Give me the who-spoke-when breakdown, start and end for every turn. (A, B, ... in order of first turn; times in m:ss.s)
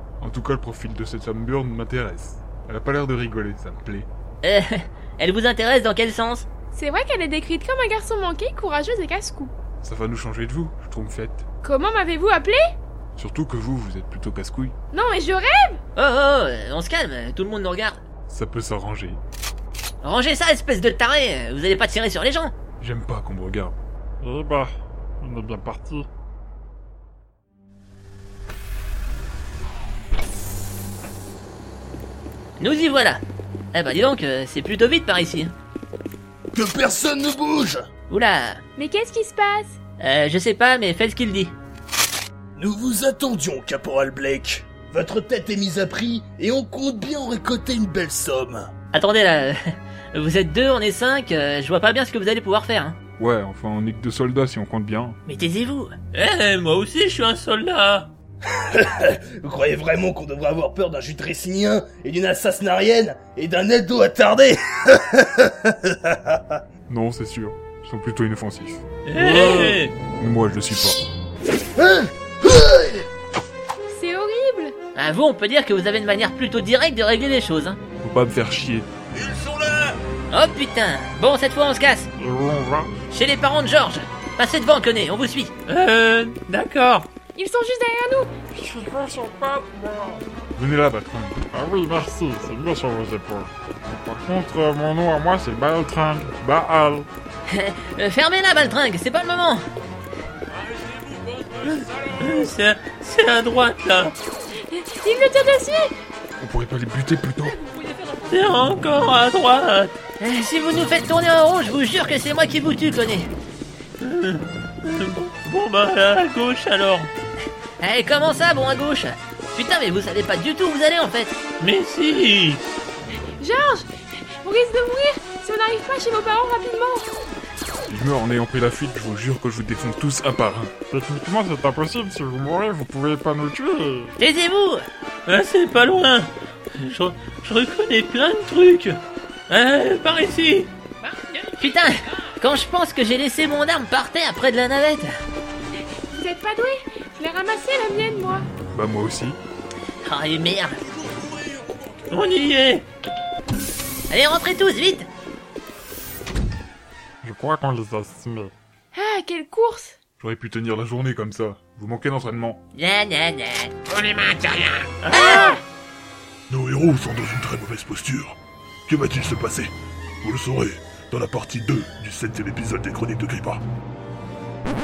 0:00.2-0:04.1 A
0:04.4-0:06.5 B
0:06.7-0:09.5 C
0:09.8-0:11.4 A
0:11.6-0:12.6 C
0:13.2-0:14.7 A
0:14.9-0:15.8 C
0:16.0-0:18.0 B
0:18.3-0:19.2 A
0:20.0-0:22.5 B
0:22.8-0:23.7 A
0:24.2-0:24.6 D
0:25.2-0:26.0 D
0:32.6-0:33.2 B
0:33.7-0:35.5 B
0:36.5-0:37.9 E
0:38.1-0:38.6 B
0:38.8-0:39.8 C
0:40.0-0:41.6 B
0:42.6-0:48.7 E
0:48.9-0:49.6 B
0:50.1-0:53.0 B
0:53.2-0:55.2 A
0:55.3-0:56.0 B
0:56.1-0:58.1 F
0:58.7-1:06.6 E
1:06.9-1:08.8 A
1:09.1-1:09.9 F
1:09.3-1:09.8 D
1:10.2-1:11.0 A
1:11.8-1:13.0 E
1:13.9-1:14.8 C
1:15.0-1:17.8 B
1:18.0-1:18.9 A
1:20.3-1:22.1 B
1:22.2-1:22.9 D
1:23.1-1:25.5 B
1:25.7-1:27.1 F
1:27.4-1:28.3 C
1:28.5-1:30.2 D
1:30.6-1:31.5 A
1:31.5-1:37.1 D
1:37.5-1:39.6 B
1:41.3-1:44.1 F
1:44.7-1:45.9 C
1:46.4-1:47.6 A
1:48.3-1:49.9 F
1:50.2-1:53.3 B
1:54.0-1:57.1 F
1:57.8-2:01.4 B
2:01.6-2:02.6 F
2:03.4-2:03.9 C
2:04.4-2:07.1 C
2:07.9-2:10.7 A
2:10.9-2:14.1 D
2:14.2-2:14.8 B
2:15.3-2:20.7 F
2:21.6-2:25.1 B
2:26.1-2:28.5 C
2:28.7-2:29.4 A
2:30.0-2:30.8 B
2:32.1-2:32.8 F
2:34.1-2:35.1 B
2:37.2-2:38.5 D
2:38.9-2:40.0 C
2:40.2-2:42.6 A
2:42.8-2:43.8 B
2:45.0-2:45.5 F
2:45.2-2:45.6 C
2:46.5-2:48.4 G
2:48.9-2:53.6 G